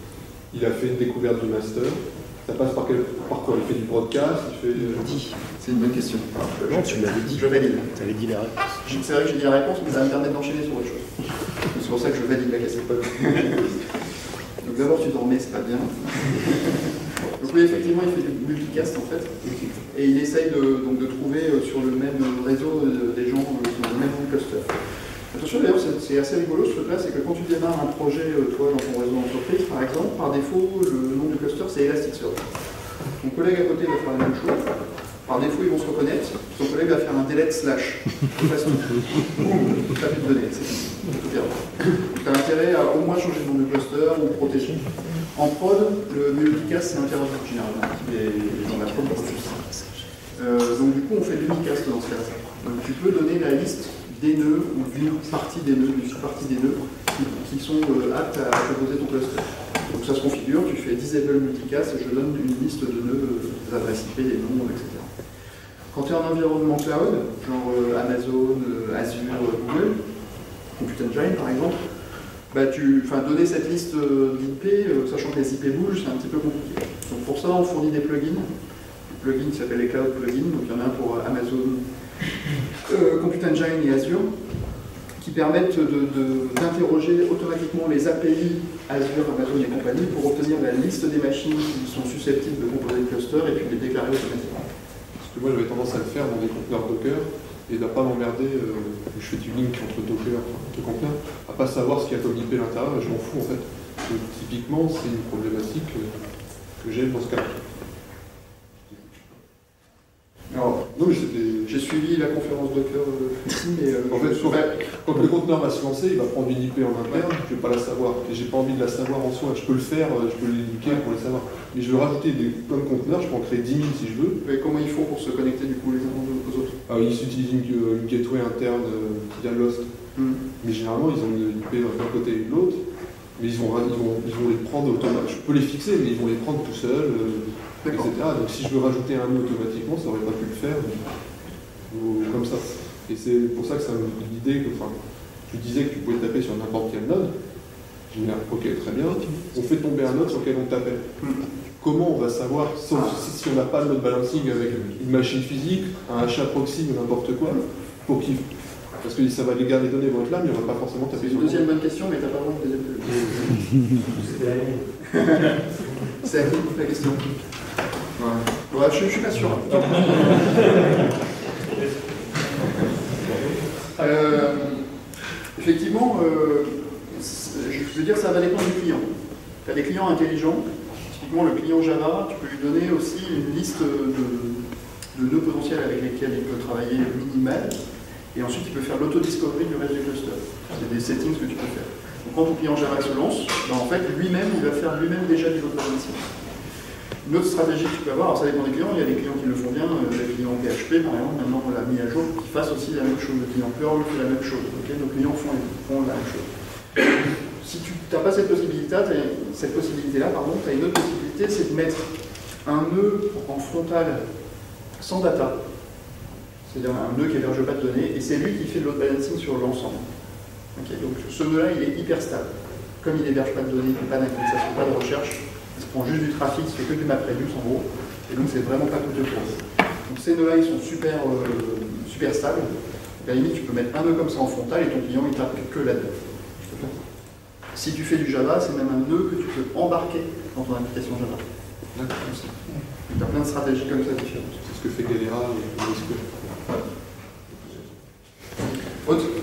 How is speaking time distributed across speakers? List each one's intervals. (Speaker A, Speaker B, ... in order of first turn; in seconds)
Speaker A: 0.5-5.2, 95.2-106.2, 106.8-107.6, 114.1-124.4, 126.9-129.9, 130.6-132.8, 133.3-141.1, 141.9-147.3, 148.1-151.0, 151.8-161.7, 244.6-246.4
Speaker B: 4.8-7.9, 8.8-13.9, 14.6-24.8, 25.3-32.5, 33.2-34.7, 35.2-49.8, 50.3-65.1, 65.9-70.0, 70.8-71.8, 72.5-78.5, 79.1-81.8, 82.8-84.3, 85.2-94.7, 110.5-114.9, 124.4-126.8, 130.2-130.4, 137.8-138.1, 161.1-164.4, 165.0-165.6, 166.2-167.4, 168.2-171.0, 173.9-174.8, 175.5-179.1, 179.6-184.6, 185.1-187.7, 188.3-196.3, 197.2-206.5, 207.6-212.1, 212.6-214.2, 215.0-215.6, 216.7-220.0, 220.7-232.7, 233.2-236.1, 237.7-241.4, 241.9-244.6, 249.0-249.3
Speaker C: 6.7-8.8